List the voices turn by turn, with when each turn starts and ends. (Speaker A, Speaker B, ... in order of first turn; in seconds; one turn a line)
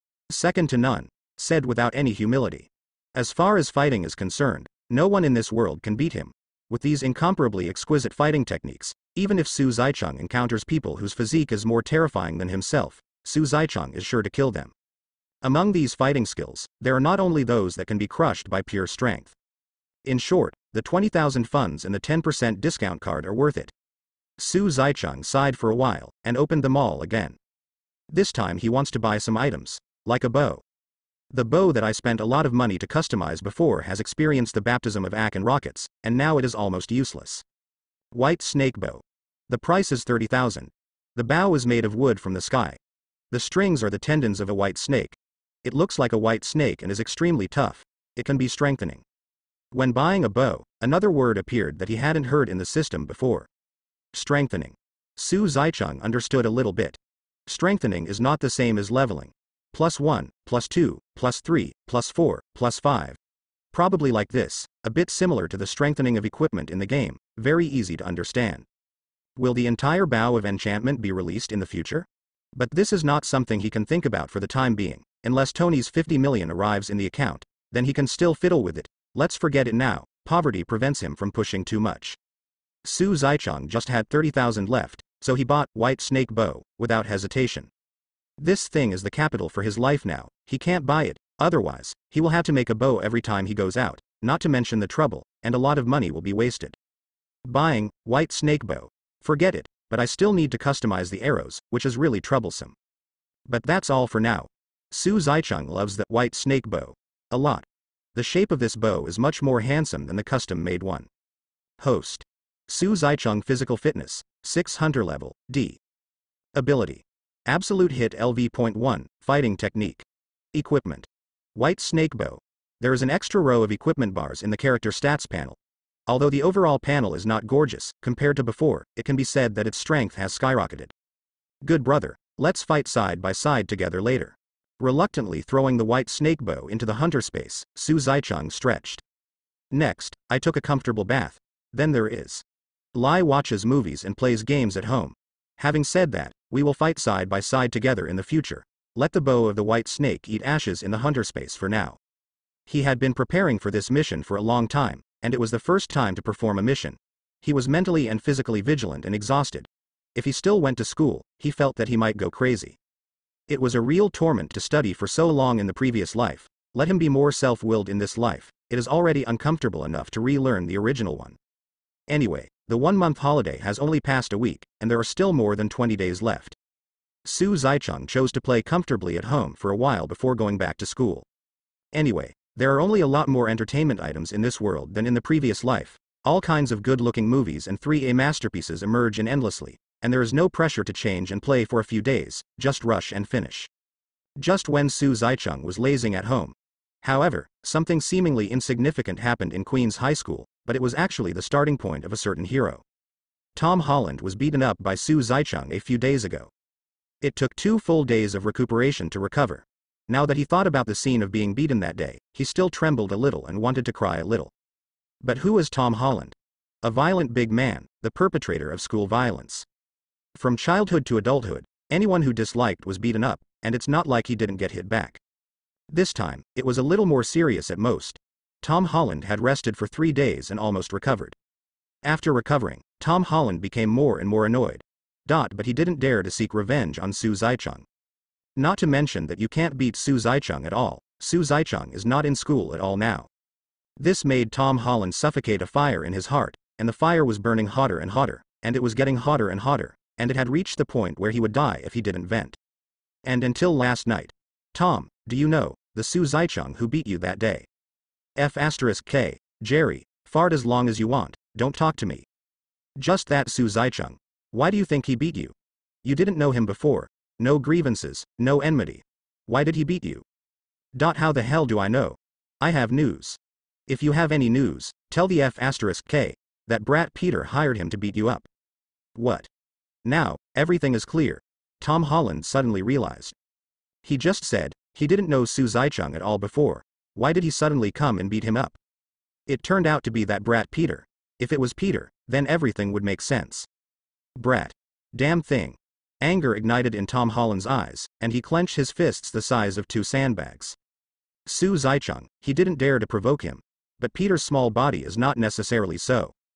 Speaker A: 0.3-14.7
Speaker A: 15.4-19.4
Speaker A: 20.0-23.7
Speaker A: 24.4-27.4
Speaker A: 28.1-30.6
Speaker A: 31.3-37.4
Speaker A: 38.1-42.8
Speaker A: 43.3-49.0
Speaker A: 49.7-53.5
Speaker A: 54.1-63.2
Speaker A: 63.7-68.7
Speaker A: 69.3-82.2
Speaker A: 82.8-87.7
Speaker A: 88.4-96.8
Speaker A: 97.4-102.8
Speaker A: 103.5-111.1
Speaker A: 111.8-115.8
Speaker A: 116.5-130.9
Speaker A: 131.6-139.0
Speaker A: 139.7-152.0
Speaker A: 152.7-162.8
Speaker A: 163.5-171.4
Speaker A: 172.1-176.6
Speaker A: 177.2-181.2
Speaker A: 181.9-193.7
Speaker A: 194.4-202.8
Speaker A: 203.5-206.5
Speaker A: 207.2-214.5
Speaker A: 215.2-219.7
Speaker A: 220.3-225.2
Speaker A: 225.9-231.3
Speaker A: 232.0-237.8
Speaker A: 238.6-243.3
Speaker A: 244.0-252.6
Speaker A: 253.2-257.7
Speaker A: 258.4-262.3
Speaker A: 263.0-270.2
Speaker A: 270.9-278.5
Speaker A: 279.1-279.5
Speaker A: 280.0-283.4
Speaker A: 284.0-288.8
Speaker A: 289.5-293.7
Speaker A: 294.4-300.8
Speaker A: 301.4-306.3